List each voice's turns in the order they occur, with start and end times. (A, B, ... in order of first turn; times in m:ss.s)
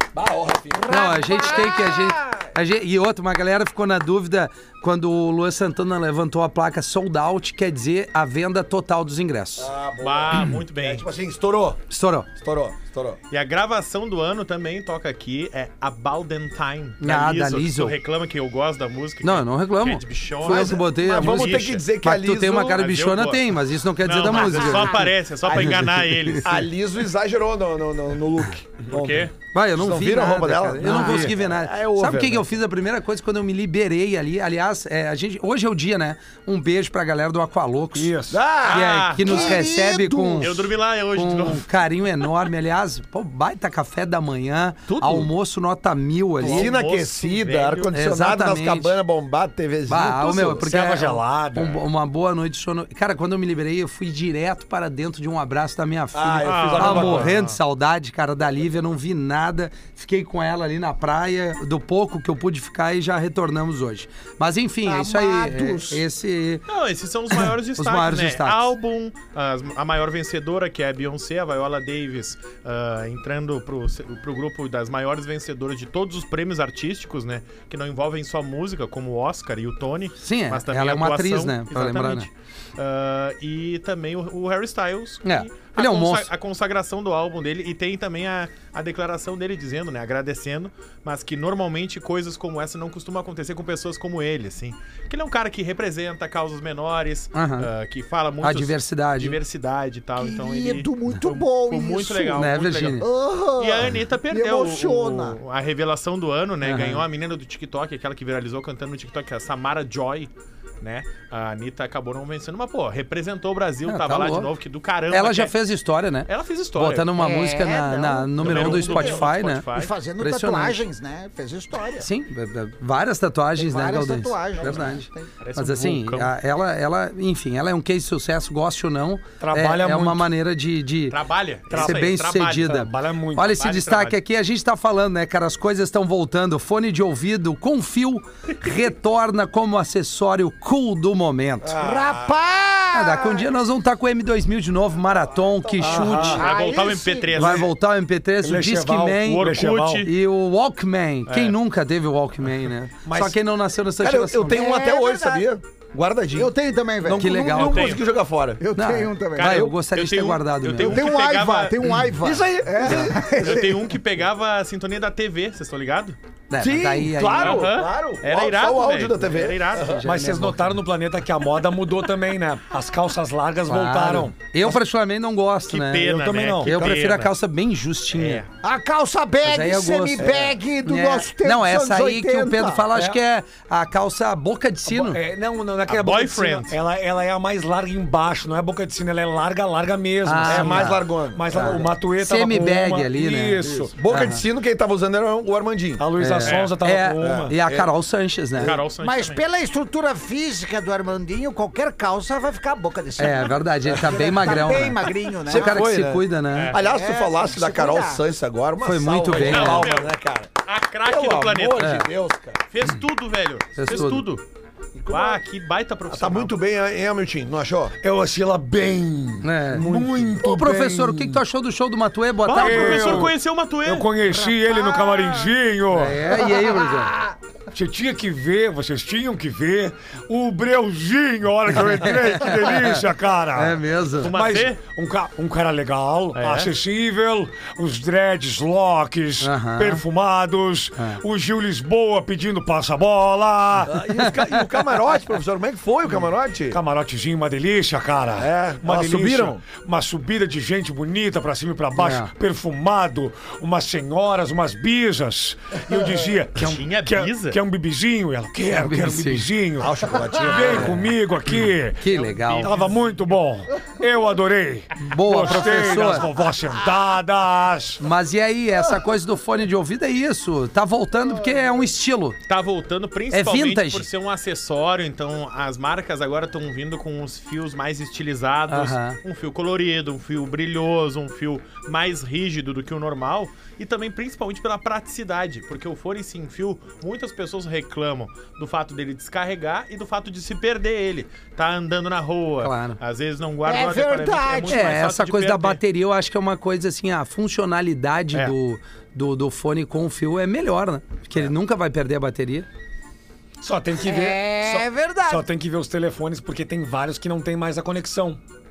0:00.1-0:01.2 A
0:00.7-0:02.5 B
0:00.9-0:09.7 C
0:09.6-0:13.2 A
0:10.0-0:11.0 D
0:11.9-0:12.3 C
0:13.3-0:21.8 D
0:17.0-0:18.0 C
0:19.2-0:26.4 C
0:20.4-0:22.8 A
0:22.5-0:26.7 D
0:24.2-0:25.1 B
0:26.4-0:32.5 A
0:28.9-0:29.3 D
0:29.5-0:38.1 C
0:30.8-0:31.3 B
0:37.9-0:38.4 E
0:38.3-0:39.6 A
0:38.6-0:40.5 C
0:38.6-0:39.6 D
0:39.2-0:40.7 B
0:40.4-0:41.7 D
0:41.1-0:46.7 C
0:44.9-0:45.3 A
0:46.4-0:50.6 A
0:46.4-0:47.9 D
0:47.9-0:48.9 C
0:49.9-1:06.6 C
0:50.6-0:51.8 E
0:56.1-0:57.3 A
0:56.4-0:57.6 D
0:56.6-0:57.3 E
1:04.8-1:06.0 B
1:06.7-1:43.0 D
1:07.8-1:08.7 C
1:20.2-1:22.3 C
1:25.2-1:26.3 C
1:37.3-1:37.7 C
1:38.4-1:39.4 C
1:40.2-1:42.4 B
1:42.3-1:43.1 C
1:43.0-1:45.4 B
1:43.6-1:55.5 D
1:46.6-1:47.0 C
1:53.8-1:54.5 C
1:55.1-1:59.6 C
1:56.3-1:57.1 D
1:57.2-2:02.1 B
1:58.4-1:59.9 D
2:00.2-2:00.8 C
2:02.0-2:11.2 C
2:03.6-2:05.3 B
2:05.4-2:06.3 D
2:09.4-2:10.3 E
2:11.1-2:12.9 D
2:11.7-2:12.1 E
2:11.7-2:21.8 C
2:12.6-2:13.6 E
2:13.4-2:14.2 D
2:21.6-2:22.3 A
2:21.8-2:23.4 B
2:22.9-2:26.4 C
2:25.3-2:26.4 A
2:25.8-2:26.5 E
2:26.3-2:27.4 B
2:26.3-2:27.7 D
2:27.3-2:34.6 C
2:28.4-2:30.1 E
2:29.2-2:30.1 D
2:31.3-2:31.5 D
2:33.0-2:33.4 E
2:34.0-2:36.5 A
2:34.5-2:35.5 B
2:36.3-2:37.5 B
2:37.0-2:38.0 C
2:37.1-2:38.6 A
2:37.5-2:38.0 D
2:38.6-2:39.6 B
2:38.8-2:41.0 C
2:39.4-2:41.8 D
2:40.8-2:43.9 B
2:42.2-2:43.3 A
2:42.8-2:46.2 D
2:46.5-2:47.7 C
2:46.6-2:50.0 A
2:47.4-2:50.0 D
2:49.8-2:50.7 C
2:50.0-2:54.8 E
2:53.7-2:56.1 C
2:55.7-2:57.3 D
2:56.0-2:56.9 E
2:56.6-2:58.4 C
2:58.1-2:58.5 D
2:58.6-3:02.9 B
2:59.4-3:05.2 C
3:00.2-3:00.5 A
3:02.9-3:03.2 E
3:04.8-3:13.9 E
3:05.8-3:06.8 D
3:10.2-3:11.0 C
3:10.4-3:11.8 A
3:11.5-3:14.4 C
3:13.7-3:16.0 A
3:16.0-3:17.5 E
3:16.2-3:18.8 C
3:16.4-3:16.7 D
3:17.2-3:17.9 A
3:18.6-3:19.4 D
3:19.0-3:25.8 B
3:23.2-3:26.7 C
3:25.4-3:32.6 A
3:26.5-3:26.8 D
3:26.8-3:28.2 B
3:28.8-3:29.9 C
3:29.3-3:30.1 D
3:30.6-3:32.0 D
3:31.8-3:32.1 C
3:32.7-3:34.4 D
3:33.8-3:34.2 C
3:34.9-3:35.4 A
3:35.1-3:36.5 D
3:36.1-3:37.9 A
3:38.0-3:41.4 E
3:39.4-3:43.3 C
3:39.8-3:40.3 A
3:42.4-3:44.1 D
3:42.5-3:46.2 E
3:44.6-3:45.5 B
3:45.9-3:47.1 C
3:46.3-3:47.3 B
3:47.7-4:04.0 E
3:52.0-3:53.0 C
3:53.5-3:54.3 C
3:54.2-3:54.8 D
3:56.3-3:56.7 D
3:59.4-4:00.0 C
4:03.9-4:06.8 A
4:04.2-4:04.6 C
4:06.7-4:28.0 E
4:08.4-4:09.6 A
4:12.0-4:12.3 C
4:16.5-4:17.6 D
4:18.7-4:19.5 C
4:19.8-4:21.0 A
4:20.8-4:21.1 C
4:22.0-4:22.7 C
4:22.2-4:23.0 D
4:25.0-4:26.3 C
4:28.0-4:32.4 C
4:32.5-4:55.8 D
4:33.3-4:34.1 C
4:38.7-4:39.2 C
4:52.6-4:53.0 C
4:53.6-4:55.0 B
4:54.7-5:02.7 C
5:03.6-5:08.4 E
5:04.0-5:05.5 B